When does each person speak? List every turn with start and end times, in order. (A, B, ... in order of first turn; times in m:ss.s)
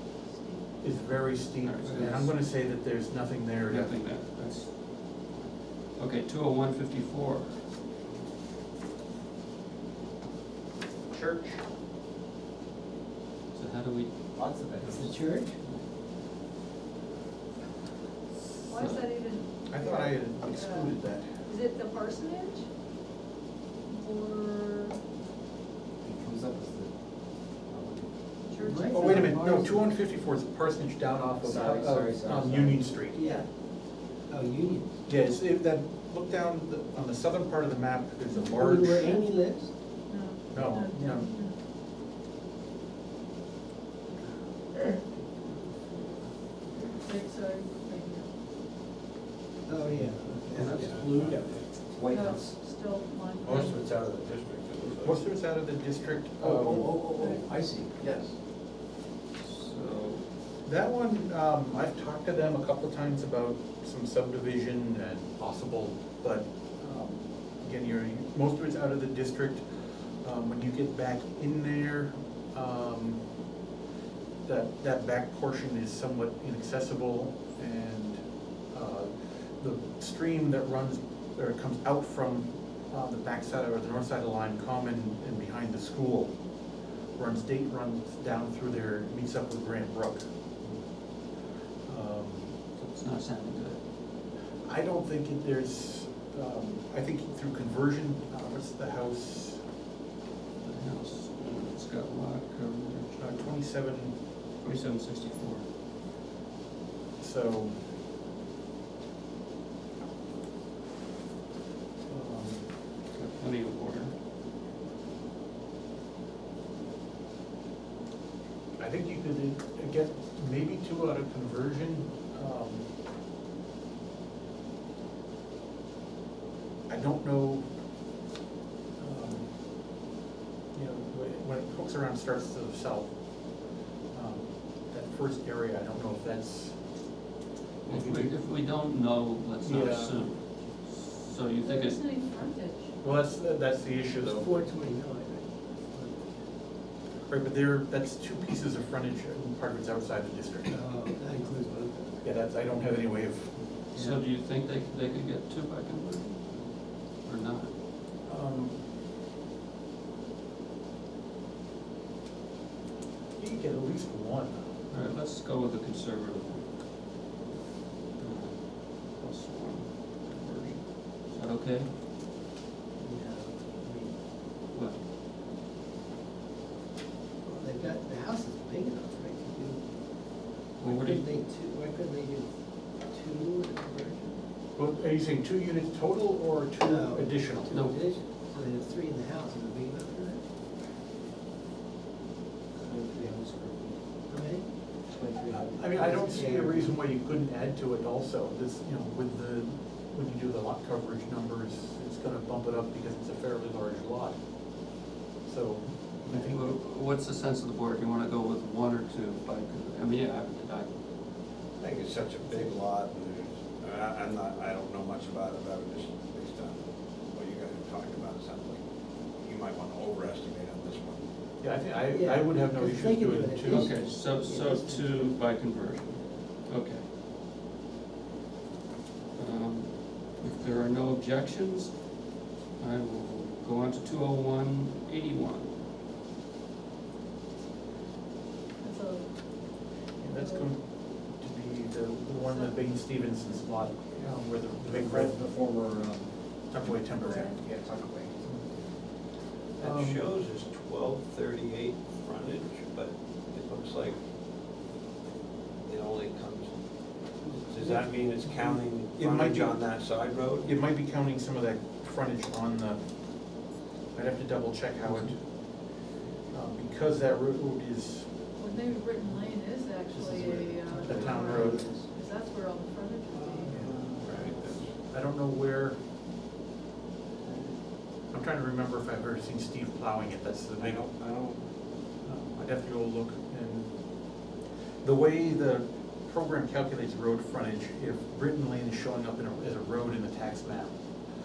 0:00.2-0:01.0 A
0:00.8-0:03.9 B
0:01.6-0:02.4 C
0:03.7-0:07.6 C
0:11.1-0:11.6 B
0:13.5-0:14.1 C
0:14.3-0:15.1 D
0:14.8-0:15.8 C
0:14.9-0:15.6 E
0:18.7-0:22.6 A
0:18.7-0:19.0 C
0:19.7-0:21.4 B
0:23.9-0:25.0 A
0:26.0-0:26.9 D
0:27.6-0:28.1 D
0:28.4-0:29.2 A
0:28.6-0:29.9 E
0:28.9-0:33.2 B
0:31.4-0:32.9 D
0:33.1-0:33.4 E
0:34.3-0:34.9 E
0:35.0-0:39.2 B
0:38.3-0:39.2 A
0:38.5-0:39.7 E
0:40.1-0:41.6 A
0:40.5-0:41.3 B
0:46.8-0:48.3 A
0:49.7-0:51.4 E
0:49.9-0:52.6 D
0:50.5-0:50.9 C
0:50.7-0:51.7 F
0:52.0-0:53.8 A
0:53.4-0:55.3 F
0:54.8-0:57.0 B
0:56.4-0:58.0 D
0:57.1-0:57.6 A
0:58.0-0:58.3 F
0:59.4-1:00.2 C
1:00.6-1:13.2 B
1:14.4-1:26.4 B
1:27.2-1:30.3 B
1:31.8-1:32.5 B
1:32.8-1:33.8 C
1:34.6-1:39.6 B
1:40.6-1:43.5 C
1:43.2-1:44.2 B
1:44.6-1:45.7 C
1:47.2-1:47.8 B
1:52.0-1:52.6 B
1:53.1-1:54.1 C
1:58.8-2:02.9 B
2:06.9-2:07.7 B
2:09.0-2:09.5 B
2:10.7-2:13.1 B
2:14.1-2:16.8 B
2:17.8-2:18.3 B
2:17.8-2:22.0 C
2:19.6-2:20.2 B
2:21.6-2:22.9 A
2:23.0-2:24.6 B
2:24.2-2:26.4 E
2:27.2-2:30.7 B
2:30.7-2:32.2 E
2:32.2-2:33.6 B
2:33.9-2:37.7 C
2:33.9-2:34.2 E
2:38.2-2:38.8 B
2:43.4-2:44.7 B
2:44.9-2:46.8 C
2:48.2-2:51.9 C
2:53.0-2:54.2 E
2:54.7-2:55.0 C
2:57.4-2:59.9 E
3:00.8-3:04.4 E
3:00.8-3:01.3 C
3:04.8-3:07.7 B
3:06.8-3:10.4 E
3:07.7-3:08.0 C
3:12.8-3:13.9 D
3:13.0-3:13.5 E
3:14.3-3:17.0 E
3:15.5-3:24.4 B
3:25.4-3:26.7 B
3:26.2-3:30.9 C
3:31.8-3:38.8 F
3:39.4-3:41.2 F
3:41.6-3:43.9 B
3:42.1-3:45.4 E
3:43.7-3:47.0 C
3:49.4-3:52.0 C
3:52.8-3:55.7 C
3:58.8-3:59.3 A
4:00.2-4:05.4 B
4:00.3-4:00.7 A
4:02.4-4:03.7 A
4:04.8-4:06.3 D
4:06.7-4:07.5 B
4:06.8-4:07.6 A
4:07.6-4:08.4 D
4:09.8-4:14.2 F
4:09.8-4:10.3 B
4:15.8-4:16.8 F
4:17.4-4:20.7 F
4:19.2-4:19.9 B
4:20.6-4:23.0 B
4:24.1-4:25.5 B
4:26.5-4:28.3 B
4:28.6-4:34.1 A
4:30.1-4:32.1 E
4:31.0-4:31.9 B
4:33.4-4:35.0 F
4:33.7-4:34.4 B
4:35.0-4:36.0 B
4:37.4-4:37.7 F
4:38.3-4:41.1 B
4:40.8-4:41.6 F
4:42.2-4:43.9 B
4:45.0-4:51.0 B